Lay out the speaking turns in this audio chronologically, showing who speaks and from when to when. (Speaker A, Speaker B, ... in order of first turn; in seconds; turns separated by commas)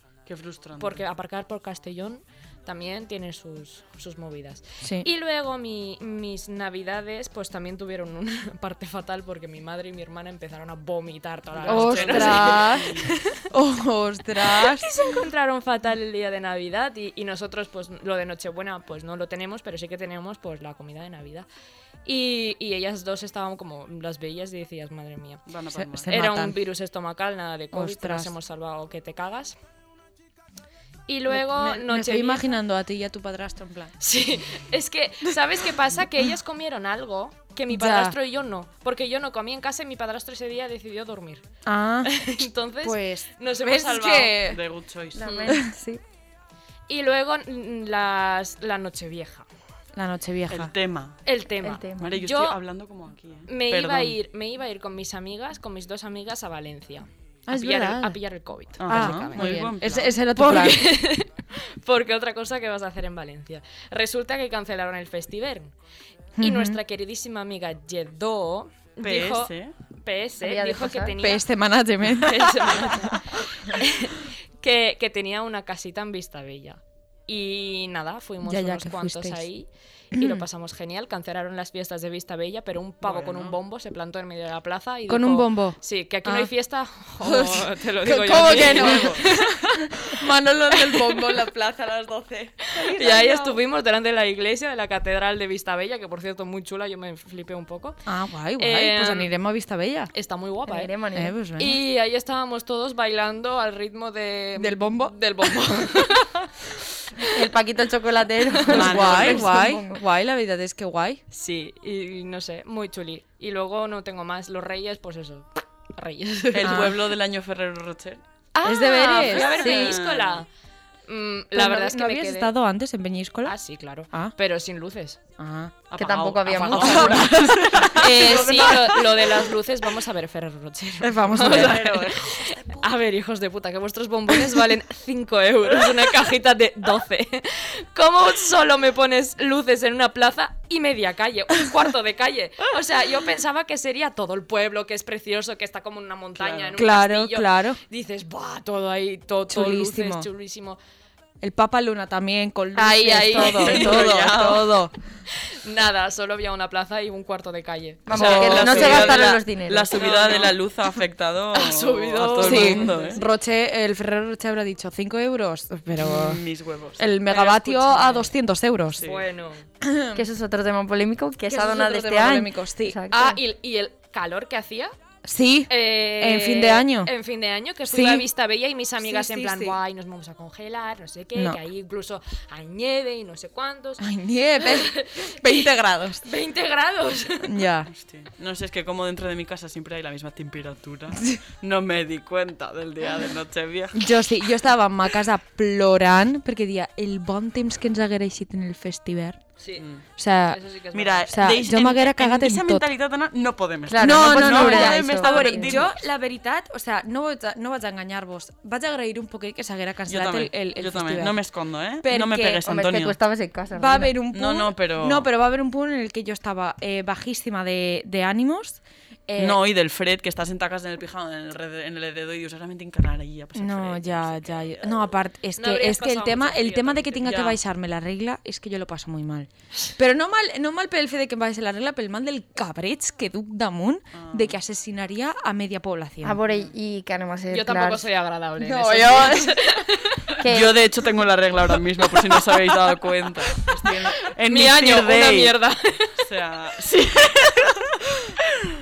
Speaker A: 0.2-1.0, Speaker B: 0.8-13.4, Speaker C: 4.8-5.1, Speaker A: 11.5-13.1, Speaker C: 11.7-13.0, Speaker C: 13.5-15.1, Speaker B: 14.4-21.4, Speaker B: 22.0-25.4, Speaker A: 25.5-26.1, Speaker C: 25.7-26.6, Speaker B: 26.1-29.6, Speaker C: 27.7-28.3, Speaker B: 31.1-32.5, Speaker C: 31.3-33.9, Speaker B: 34.0-41.4, Speaker C: 37.7-38.1, Speaker C: 41.6-42.2, Speaker B: 42.0-44.4, Speaker C: 42.8-44.6, Speaker A: 44.5-45.3, Speaker D: 45.1-46.0, Speaker B: 45.2-45.6, Speaker B: 46.9-49.5, Speaker C: 49.9-50.7, Speaker A: 50.5-51.2, Speaker B: 51.2-52.6, Speaker D: 51.6-52.1, Speaker A: 52.0-54.1, Speaker B: 53.5-59.7, Speaker C: 57.5-58.2, Speaker A: 58.8-60.1, Speaker C: 58.9-60.9, Speaker B: 60.3-65.7, Speaker C: 66.4-66.8, Speaker B: 66.4-71.4, Speaker A: 69.0-69.7, Speaker D: 70.4-71.2, Speaker C: 71.2-73.2, Speaker B: 72.1-89.7, Speaker C: 78.4-79.5, Speaker C: 80.1-80.4, Speaker A: 83.0-83.5, Speaker C: 85.1-86.5, Speaker C: 87.2-93.6, Speaker A: 88.3-89.2, Speaker B: 90.7-91.3, Speaker B: 92.8-98.0, Speaker C: 98.0-100.1, Speaker B: 98.6-99.3, Speaker B: 100.1-100.9, Speaker D: 100.7-101.3, Speaker C: 101.1-101.8, Speaker B: 101.6-106.4, Speaker C: 104.6-106.1, Speaker D: 107.2-110.0, Speaker A: 108.6-109.5, Speaker C: 108.6-111.2, Speaker B: 111.3-116.9, Speaker A: 116.5-118.2, Speaker C: 116.6-117.0, Speaker B: 118.5-120.5, Speaker C: 118.6-119.7, Speaker A: 119.2-120.4, Speaker D: 119.6-120.0, Speaker B: 121.1-122.5, Speaker C: 121.5-123.5, Speaker B: 123.4-125.2, Speaker C: 125.4-125.7, Speaker A: 125.9-129.5, Speaker D: 126.0-127.4, Speaker B: 126.4-127.3, Speaker C: 126.7-128.8, Speaker B: 127.9-150.8, Speaker C: 131.0-132.0, Speaker A: 131.3-132.8, Speaker A: 146.3-146.8, Speaker C: 146.8-147.8, Speaker C: 149.5-150.3, Speaker C: 151.4-154.9, Speaker B: 152.8-154.1, Speaker A: 153.4-154.7, Speaker B: 155.4-159.3, Speaker D: 158.1-160.0, Speaker A: 158.1-163.2, Speaker B: 159.9-160.6, Speaker B: 161.5-163.2, Speaker C: 162.4-166.4, Speaker A: 166.0-168.3, Speaker C: 167.0-169.0, Speaker A: 168.9-169.2, Speaker B: 169.0-169.7, Speaker C: 169.8-170.2, Speaker D: 170.1-173.4, Speaker C: 171.5-173.0, Speaker B: 173.1-174.9, Speaker C: 175.2-177.1, Speaker B: 175.7-184.1, Speaker C: 177.9-178.3, Speaker C: 179.0-179.8, Speaker C: 181.3-181.6, Speaker C: 184.0-186.2, Speaker B: 184.6-185.7, Speaker B: 186.2-187.5, Speaker C: 187.4-187.9, Speaker A: 187.9-194.5, Speaker C: 193.9-199.4, Speaker B: 199.6-199.8, Speaker A: 199.8-200.0, Speaker C: 200.2-200.6, Speaker B: 200.5-201.3, Speaker A: 200.9-205.9, Speaker C: 201.3-202.8, Speaker D: 203.9-205.8, Speaker C: 204.0-211.4, Speaker A: 210.1-213.2, Speaker C: 212.0-212.6, Speaker D: 212.6-214.1, Speaker C: 213.7-219.6, Speaker A: 214.3-215.3, Speaker A: 219.4-225.1, Speaker C: 223.5-236.4, Speaker B: 225.6-227.5, Speaker A: 227.2-227.5, Speaker A: 234.1-234.6, Speaker D: 236.2-238.0, Speaker B: 237.5-240.4, Speaker C: 238.6-239.6, Speaker D: 240.4-240.8, Speaker A: 240.4-245.5, Speaker B: 243.8-246.2, Speaker A: 246.2-248.5